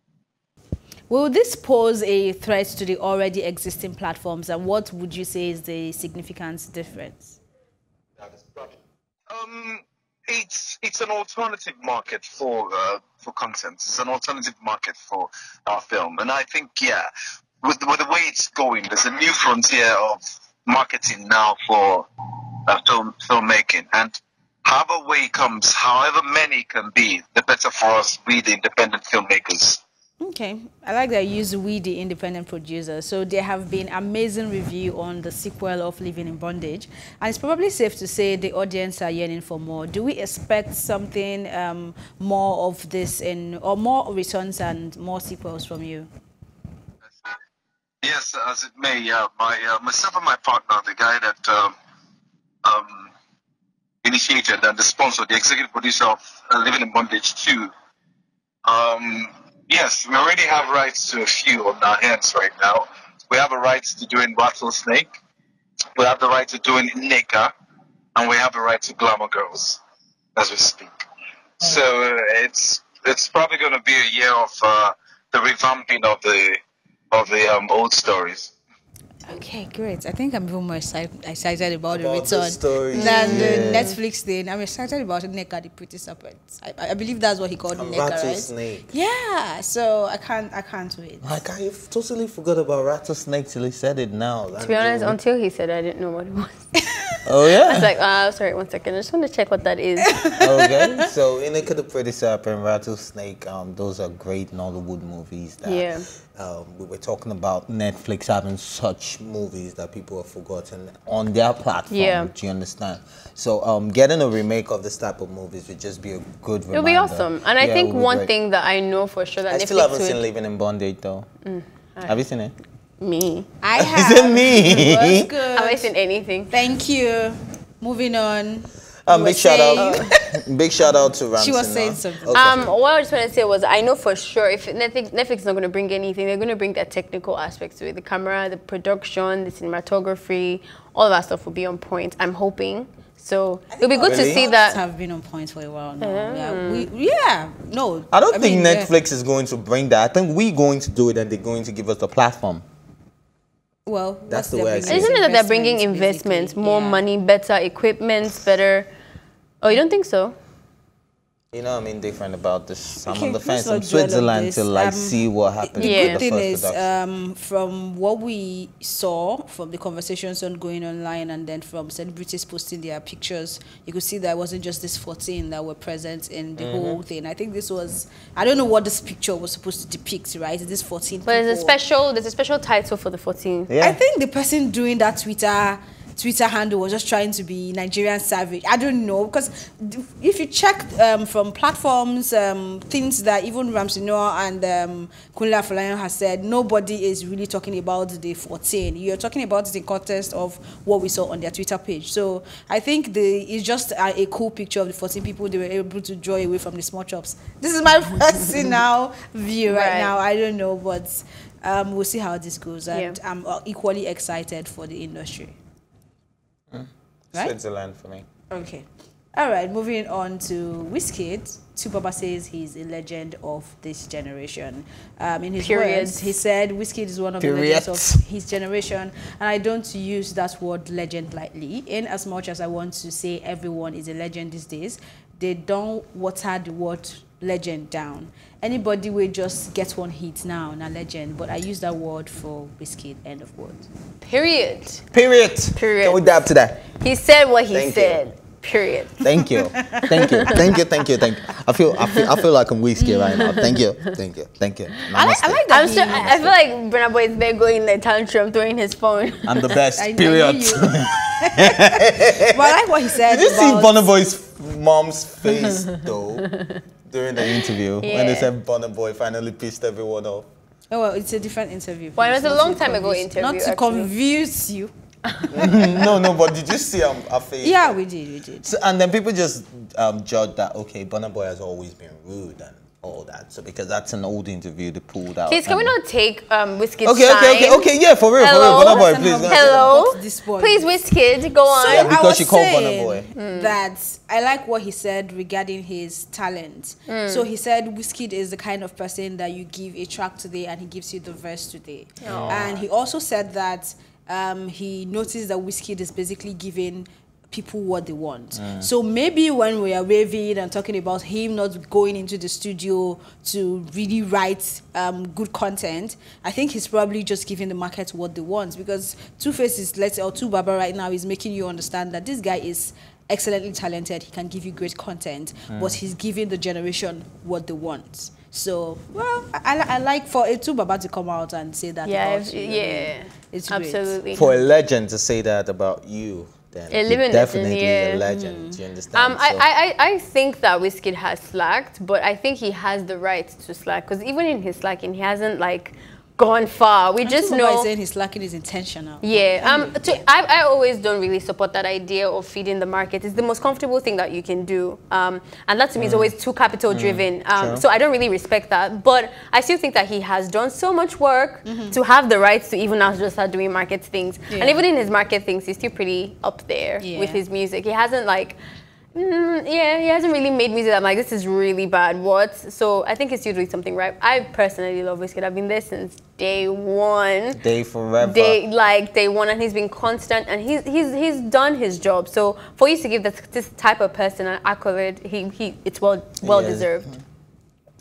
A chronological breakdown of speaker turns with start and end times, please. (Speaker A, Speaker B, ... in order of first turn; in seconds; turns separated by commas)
Speaker A: 1.1-7.4, Speaker B: 8.2-8.8, Speaker B: 9.3-17.1, Speaker B: 17.6-22.1, Speaker B: 22.7-29.8, Speaker A: 30.2-46.1, Speaker B: 48.0-51.7, Speaker B: 52.6-53.1, Speaker B: 54.0-57.7, Speaker B: 58.6-65.1, Speaker B: 66.0-67.5, Speaker B: 68.2-69.8, Speaker B: 70.4-71.0, Speaker B: 71.6-76.6, Speaker B: 77.1-78.5, Speaker A: 79.3-91.4, Speaker C: 81.9-83.9, Speaker D: 82.9-83.9, Speaker C: 87.7-88.9, Speaker C: 91.2-95.2, Speaker D: 94.6-96.7, Speaker C: 97.3-97.9, Speaker D: 97.7-100.1, Speaker A: 100.1-100.8, Speaker C: 100.4-118.3, Speaker D: 105.6-106.1, Speaker D: 111.9-112.3, Speaker D: 116.7-120.2, Speaker C: 119.5-121.3, Speaker D: 121.5-122.2, Speaker C: 122.0-122.5, Speaker D: 123.0-123.5, Speaker A: 123.6-125.9, Speaker C: 123.8-125.3, Speaker D: 125.5-126.5, Speaker A: 126.5-130.1, Speaker C: 129.1-132.7, Speaker D: 129.8-130.1, Speaker A: 131.3-132.3, Speaker D: 132.3-144.8, Speaker A: 143.7-148.9, Speaker C: 144.0-144.5, Speaker D: 146.0-146.9, Speaker C: 148.1-152.7, Speaker A: 153.9-157.1, Speaker C: 154.3-155.1, Speaker D: 154.9-158.9, Speaker D: 159.6-160.4, Speaker C: 161.5-166.9, Speaker A: 163.1-165.2, Speaker A: 165.7-181.8, Speaker D: 165.8-166.2, Speaker C: 176.6-177.0, Speaker D: 181.3-183.7, Speaker C: 183.7-184.0, Speaker A: 183.8-215.6, Speaker D: 209.7-210.1, Speaker D: 212.9-213.2, Speaker C: 216.7-218.3, Speaker A: 218.5-243.9, Speaker D: 225.6-226.3, Speaker C: 227.4-228.2, Speaker D: 244.2-245.0, Speaker C: 245.1-246.8, Speaker D: 245.8-246.2, Speaker D: 247.0-249.2, Speaker C: 247.7-248.2, Speaker C: 249.2-256.5, Speaker D: 250.1-250.6, Speaker A: 253.0-253.7, Speaker A: 255.1-256.5, Speaker D: 255.7-259.5, Speaker C: 259.5-262.7, Speaker A: 260.0-264.1, Speaker C: 263.2-266.5, Speaker C: 267.1-270.5, Speaker D: 268.0-268.5, Speaker A: 270.9-276.2, Speaker D: 272.2-274.1, Speaker C: 275.5-278.0, Speaker A: 277.6-278.7, Speaker C: 278.6-285.9, Speaker D: 285.5-292.2, Speaker C: 287.0-290.1, Speaker A: 288.6-290.9, Speaker C: 291.7-293.3, Speaker A: 291.8-334.4, Speaker D: 293.4-293.7, Speaker D: 297.1-297.5, Speaker D: 302.2-302.7, Speaker C: 302.3-302.8, Speaker C: 308.6-308.9, Speaker C: 325.7-326.0, Speaker D: 332.1-334.4, Speaker C: 334.3-339.6, Speaker D: 336.9-338.2, Speaker A: 338.3-338.8, Speaker D: 339.1-347.9, Speaker A: 347.2-350.0, Speaker D: 349.2-368.6, Speaker C: 356.0-356.3, Speaker C: 356.9-357.8, Speaker A: 361.7-362.0, Speaker A: 364.5-364.8, Speaker A: 367.0-367.4, Speaker D: 369.1-377.6, Speaker C: 377.6-378.6, Speaker D: 378.2-387.1, Speaker C: 386.4-387.2